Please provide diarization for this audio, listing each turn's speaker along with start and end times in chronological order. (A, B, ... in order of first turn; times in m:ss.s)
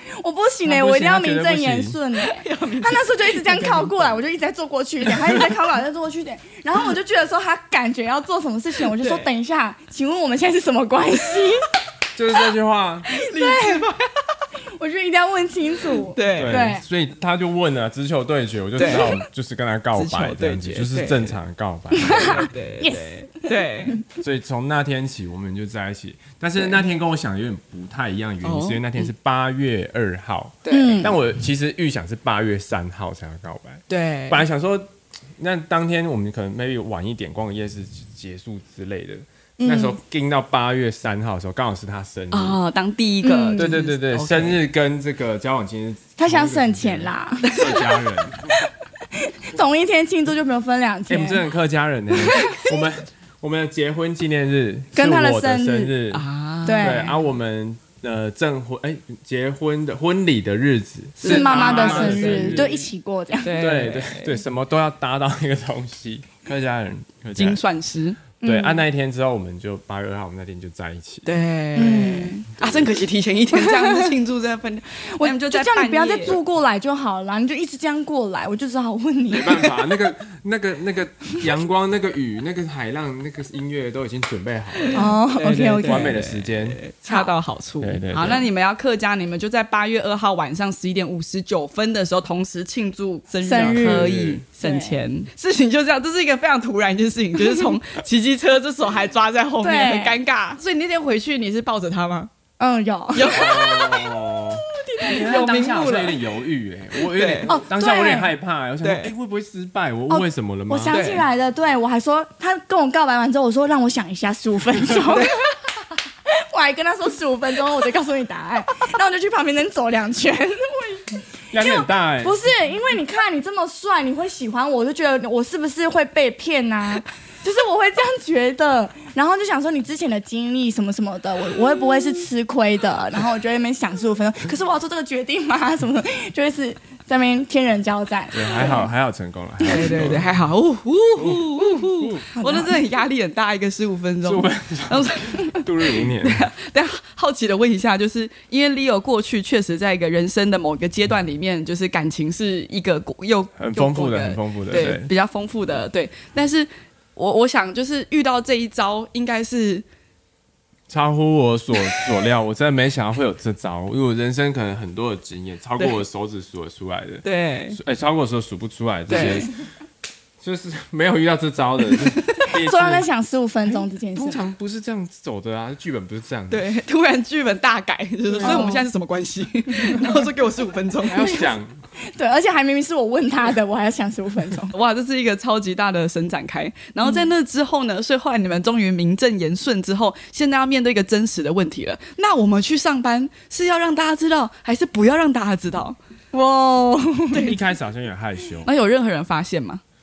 0:00.2-0:11.7 A
0:00.6-0:02.0 B
0:02.1-0:04.0 C
0:08.8-0:09.3 C
0:12.2-0:13.1 B
0:13.1-0:14.2 C
0:13.3-0:13.9 A
0:14.8-0:16.9 A
0:15.9-0:16.7 C
0:16.3-0:22.5 B
0:18.8-0:19.2 C
0:19.9-0:21.4 C
0:21.9-0:24.0 A
0:22.0-0:24.0 C
0:24.2-0:42.6 B
0:26.6-0:26.8 C
0:28.4-0:29.1 C
0:30.6-0:31.1 C
0:30.7-0:31.2 A
0:33.9-0:34.4 C
0:39.6-0:40.0 A
0:42.3-0:44.6 C
0:43.2-0:43.7 A
0:43.6-0:48.5 B
0:46.2-0:47.6 A
0:47.4-0:48.0 C
0:49.1-0:51.4 A
0:51.1-0:56.2 B
0:52.2-0:52.7 C
0:54.9-0:55.9 A
0:56.1-0:57.1 C
0:56.6-0:57.2 A
0:56.8-1:02.8 B
1:01.2-1:02.9 C
1:01.3-1:03.5 A
1:03.4-1:04.4 C
1:03.5-1:07.6 B
1:07.4-1:08.2 C
1:08.4-1:08.8 A
1:08.4-1:11.4 B
1:11.2-1:16.4 C
1:11.7-1:12.5 A
1:12.6-1:12.9 B
1:13.6-1:14.1 A
1:15.0-1:20.1 A
1:19.3-1:25.1 B
1:24.8-1:42.3 C
1:24.9-1:26.2 A
1:25.8-1:26.8 B
1:27.1-1:27.3 A
1:27.8-1:28.5 B
1:33.4-1:34.1 A
1:33.5-1:34.4 B
1:34.6-1:35.0 A
1:37.4-1:37.7 A
1:39.6-1:40.2 A
1:42.6-1:43.4 A
1:43.1-1:44.1 C
1:43.3-1:51.0 B
1:44.9-1:45.2 A
1:45.0-1:46.3 C
1:46.9-1:47.6 C
1:47.4-1:48.3 A
1:48.8-1:49.1 C
1:50.1-1:55.4 A
1:50.9-1:51.3 C
1:55.1-1:55.4 C
1:56.3-2:18.8 A
2:01.5-2:02.4 B
2:18.3-2:20.4 B
2:19.6-2:39.8 C
2:21.2-2:22.3 B
2:22.3-2:22.8 A
2:24.2-2:26.4 B
2:33.6-2:35.1 B
2:40.9-2:49.6 B
2:47.2-2:47.8 C
2:49.1-2:49.4 C
2:50.4-2:53.1 B
2:52.0-2:52.5 C
2:52.5-2:54.4 A
2:53.7-2:56.6 B
2:56.5-3:01.5 C
2:58.4-2:58.9 A
2:59.8-3:00.2 A
3:01.0-3:01.7 B
3:02.1-3:04.7 A
3:04.7-3:16.0 C
3:07.0-3:07.3 A
3:16.3-3:17.6 A
3:17.3-3:17.6 C
3:17.4-3:18.7 B
3:18.6-3:19.8 C